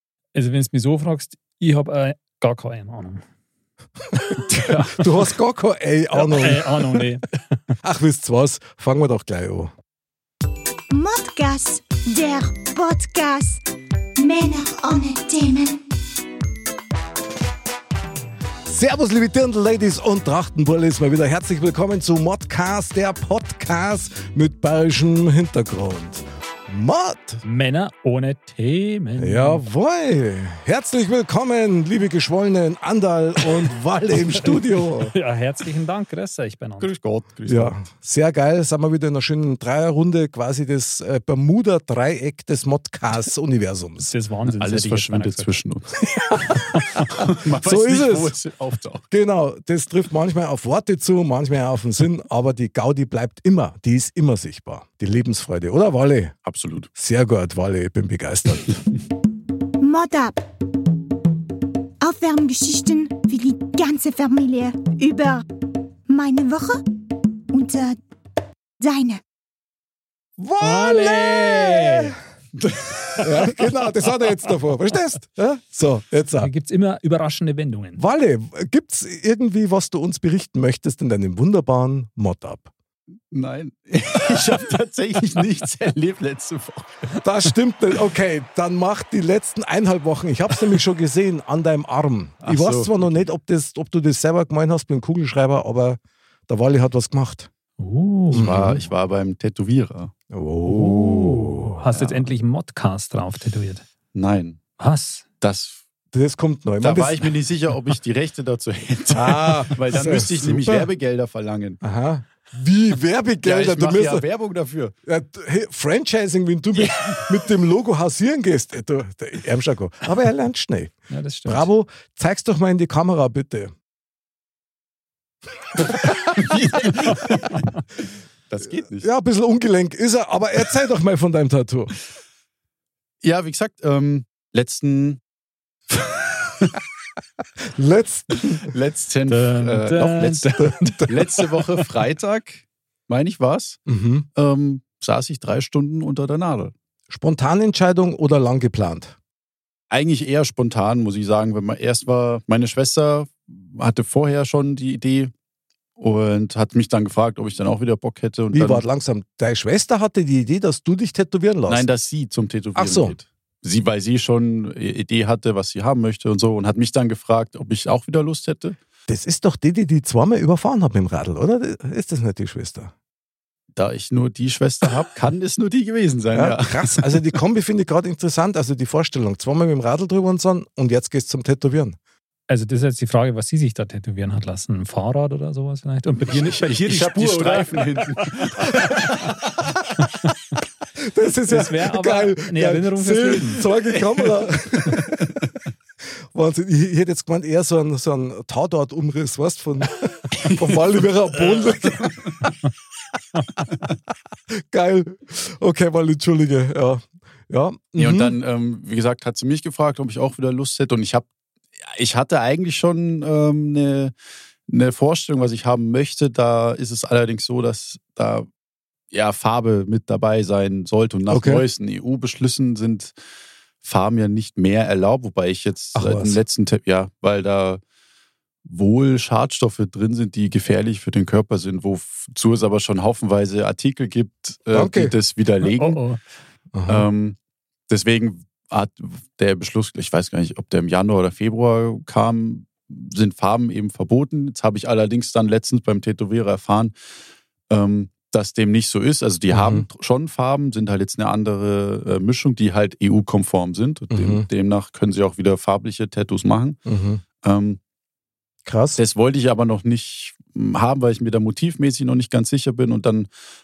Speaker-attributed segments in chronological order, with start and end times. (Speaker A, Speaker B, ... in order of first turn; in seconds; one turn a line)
Speaker A: 0.3-3.2
Speaker A: 4.3-5.0
Speaker B: 4.3-7.0
Speaker A: 6.1-7.4
Speaker B: 7.8-9.7
Speaker C: 10.9-13.6
Speaker C: 14.2-15.8
Speaker B: 18.6-27.4
Speaker A: 27.4-29.6
Speaker B: 29.2-35.1
Speaker A: 34.1-36.9
Speaker D: 36.8-37.8
Speaker B: 37.5-44.1
Speaker A: 44.0-45.6
Speaker D: 44.5-46.0
Speaker B: 46.3-46.6
Speaker D: 47.0-49.0
Speaker B: 47.6-48.4
Speaker B: 49.1-56.3
Speaker D: 56.4-56.9
Speaker B: 56.9-58.8
Speaker C: 59.8-60.4
Speaker C: 62.0-65.4
Speaker C: 66.1-66.8
Speaker C: 67.5-68.0
Speaker C: 68.8-69.2
Speaker B: 70.4-72.2
Speaker A: 70.6-72.1
Speaker D: 72.6-73.4
Speaker B: 73.2-76.5
Speaker A: 76.4-78.0
Speaker B: 78.0-82.7
Speaker D: 83.3-87.2
Speaker B: 87.2-97.5
Speaker D: 92.4-93.2
Speaker A: 97.8-98.6
Speaker B: 98.3-98.8
Speaker D: 98.3-100.1
Speaker B: 100.3-101.8
Speaker A: 100.7-103.8
Speaker D: 102.0-102.2
Speaker D: 104.1-104.6
Speaker A: 104.8-105.2
Speaker D: 105.4-105.8
Speaker B: 106.1-107.3
Speaker D: 106.8-111.8
Speaker B: 109.1-110.9
Speaker B: 111.8-114.2
Speaker D: 113.4-114.9
Speaker B: 115.0-123.7
Speaker A: 121.1-121.7
Speaker D: 126.2-127.7
Speaker D: 128.5-129.1
Speaker B: 128.9-131.9
Speaker D: 133.2-135.2
Speaker D: 135.9-136.8
Speaker B: 137.7-138.7
Speaker D: 138.6-140.5
Speaker A: 139.3-141.2
Speaker B: 140.6-141.3
Speaker D: 141.1-143.8
Speaker B: 143.9-144.2
Speaker D: 144.3-146.7
Speaker B: 147.1-149.2
Speaker D: 149.9-155.3
Speaker D: 156.0-158.8
Speaker B: 158.5-161.8
Speaker D: 161.7-168.8
Speaker B: 162.7-163.2
Speaker B: 169.1-172.9
Speaker D: 173.7-177.3
Speaker B: 176.3-182.0
Speaker A: 182.5-188.4
Speaker D: 186.3-189.5
Speaker B: 191.0-195.0
Speaker A: 191.5-193.6
Speaker D: 194.8-195.2
Speaker B: 196.3-202.2
Speaker D: 200.4-200.8
Speaker D: 201.5-202.4
Speaker B: 204.5-208.3
Speaker D: 208.0-211.2
Speaker D: 211.8-214.1
Speaker D: 214.7-218.5
Speaker D: 219.1-223.1
Speaker B: 221.3-221.6
Speaker D: 223.8-227.8
Speaker B: 225.9-226.4
Speaker D: 228.6-236.0
Speaker B: 234.7-235.1
Speaker A: 235.6-236.2
Speaker B: 236.7-237.1
Speaker D: 236.9-237.3
Speaker D: 237.9-246.9
Speaker D: 247.7-256.8
Speaker B: 249.5-249.8
Speaker B: 254.1-254.4
Speaker B: 256.9-257.2
Speaker D: 257.4-257.8
Speaker B: 258.6-259.0
Speaker D: 258.9-263.3